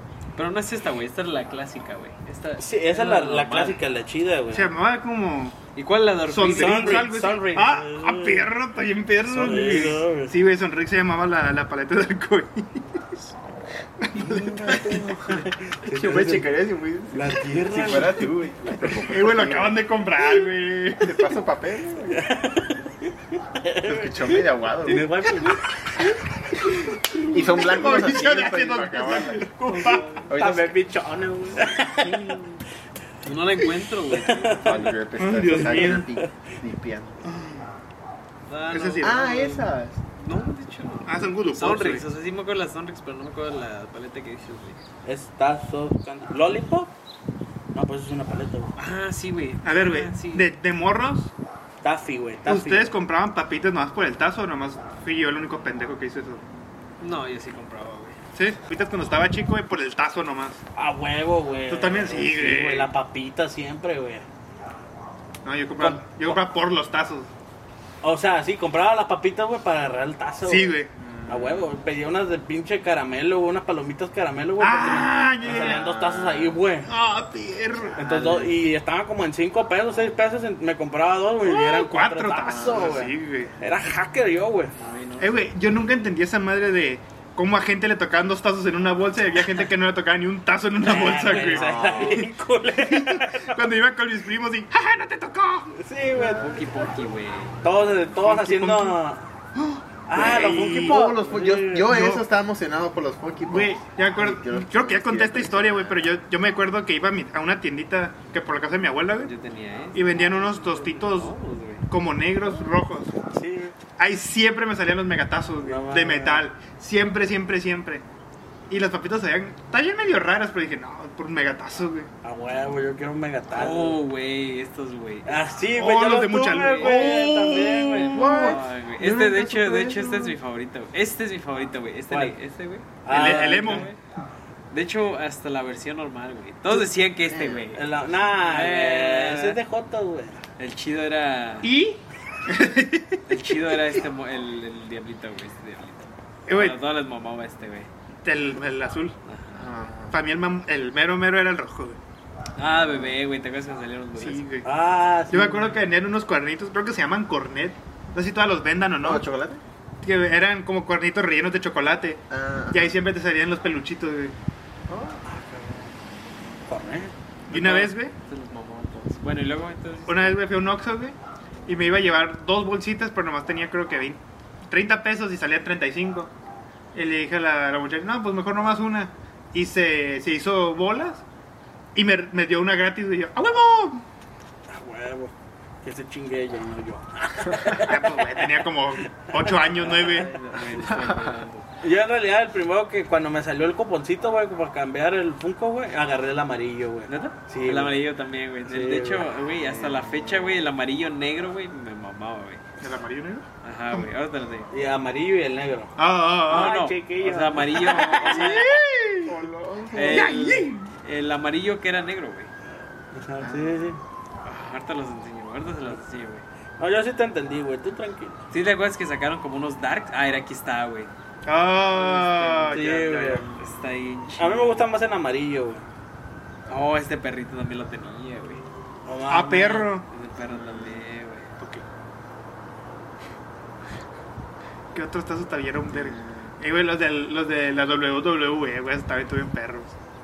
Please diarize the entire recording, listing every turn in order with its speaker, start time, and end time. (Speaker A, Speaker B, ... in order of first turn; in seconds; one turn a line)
Speaker A: 0.3-3.8
Speaker B: 2.6-4.7
Speaker C: 4.5-5.6
Speaker A: 5.8-7.1
Speaker C: 6.3-13.3
Speaker B: 6.5-8.5
Speaker B: 9.3-10.3
Speaker C: 14.0-15.4
Speaker B: 14.2-16.5
Speaker D: 14.2-19.8
Speaker B: 17.1-18.4
Speaker C: 19.0-21.2
Speaker D: 21.0-22.3
Speaker B: 22.1-22.7
Speaker B: 23.6-26.1
Speaker D: 23.8-25.1
Speaker B: 26.7-27.8
Speaker D: 27.2-29.6
Speaker C: 27.4-30.1
Speaker B: 29.6-32.4
Speaker A: 29.7-30.2
Speaker D: 30.3-30.8
Speaker D: 31.8-32.6
Speaker A: 33.2-35.0
Speaker B: 34.1-34.8
Speaker D: 34.6-37.3
Speaker C: 35.2-36.1
Speaker B: 35.5-36.3
Speaker C: 37.3-37.6
Speaker A: 38.5-39.6
Speaker C: 38.7-39.3
Speaker D: 39.0-40.0
Speaker A: 40.2-44.8
Speaker C: 41.1-42.0
Speaker B: 45.0-46.9
Speaker B: 47.7-48.7
Speaker A: 48.8-50.5
Speaker C: 49.6-51.3
Speaker B: 51.8-52.9
Speaker C: 52.5-56.4
Speaker A: 57.0-58.2
Speaker C: 58.3-60.6
Speaker B: 60.8-64.3
Speaker C: 61.7-62.9
Speaker C: 65.4-67.3
Speaker B: 65.8-66.4
Speaker B: 68.0-76.9
Speaker C: 70.5-70.9
Speaker D: 71.0-71.7
Speaker C: 74.6-78.5
Speaker B: 78.0-84.8
Speaker C: 81.4-83.5
Speaker D: 82.6-83.0
Speaker A: 84.8-85.5
Speaker C: 85.2-95.7
Speaker B: 90.8-93.6
Speaker D: 91.4-92.2
Speaker B: 95.7-96.9
Speaker A: 96.3-97.6
Speaker B: 97.6-99.2
Speaker C: 98.2-99.0
Speaker C: 99.5-101.0
Speaker B: 100.1-102.2
Speaker D: 100.1-106.1
Speaker C: 101.9-102.2
Speaker C: 103.5-109.3
Speaker A: 109.2-111.9
Speaker C: 110.0-111.3
Speaker C: 111.9-113.2
Speaker B: 113.3-113.8
Speaker C: 114.0-118.0
Speaker B: 115.6-116.5
Speaker C: 118.7-122.1
Speaker B: 122.2-124.0
Speaker A: 123.5-125.4
Speaker B: 125.3-128.6
Speaker C: 125.8-128.6
Speaker A: 126.8-127.2
Speaker D: 128.1-130.4
Speaker A: 128.2-134.0
Speaker B: 132.1-132.4
Speaker B: 133.0-133.9
Speaker C: 133.1-133.9
Speaker A: 134.7-137.8
Speaker D: 137.3-137.7
Speaker B: 137.7-140.4
Speaker A: 138.4-139.6
Speaker A: 140.6-141.7
Speaker C: 141.6-143.2
Speaker A: 143.3-147.9
Speaker C: 146.5-146.8
Speaker C: 148.2-149.2
Speaker A: 149.3-149.7
Speaker D: 149.5-150.2
Speaker C: 150.1-152.0
Speaker A: 152.6-154.4
Speaker D: 152.6-153.2
Speaker C: 154.2-154.7
Speaker B: 154.7-155.8
Speaker C: 155.3-159.3
Speaker D: 159.0-159.6
Speaker C: 160.0-164.4
Speaker D: 162.3-162.9
Speaker D: 164.9-165.2
Speaker B: 165.2-165.9
Speaker B: 166.7-167.1
Speaker A: 167.5-170.4
Speaker C: 167.5-168.1
Speaker C: 170.1-176.3
Speaker C: 176.9-181.2
Speaker C: 181.9-184.1
Speaker B: 184.7-188.7
Speaker C: 187.7-190.4
Speaker B: 189.4-190.2
Speaker A: 189.7-191.7
Speaker D: 190.8-191.3
Speaker B: 191.8-198.1
Speaker A: 197.1-202.6
Speaker B: 198.7-200.3
Speaker C: 202.8-203.5
Speaker A: 203.6-204.7
Speaker B: 204.7-205.9
Speaker C: 206.0-206.7
Speaker A: 206.5-208.7
Speaker B: 206.5-208.6
Speaker C: 208.1-209.4
Speaker D: 209.2-210.7
Speaker A: 209.9-212.5
Speaker C: 210.1-210.9
Speaker B: 213.1-214.0
Speaker D: 213.4-213.9
Speaker A: 214.4-216.4
Speaker B: 216.8-218.4
Speaker A: 218.5-221.1
Speaker C: 221.5-223.1
Speaker A: 222.0-224.9
Speaker B: 222.7-223.5
Speaker B: 224.4-225.8
Speaker A: 226.7-228.6
Speaker B: 229.1-229.9
Speaker C: 229.3-230.1
Speaker A: 230.1-231.5
Speaker D: 230.4-231.1
Speaker C: 231.6-231.8
Speaker C: 234.9-239.9
Speaker D: 235.9-236.5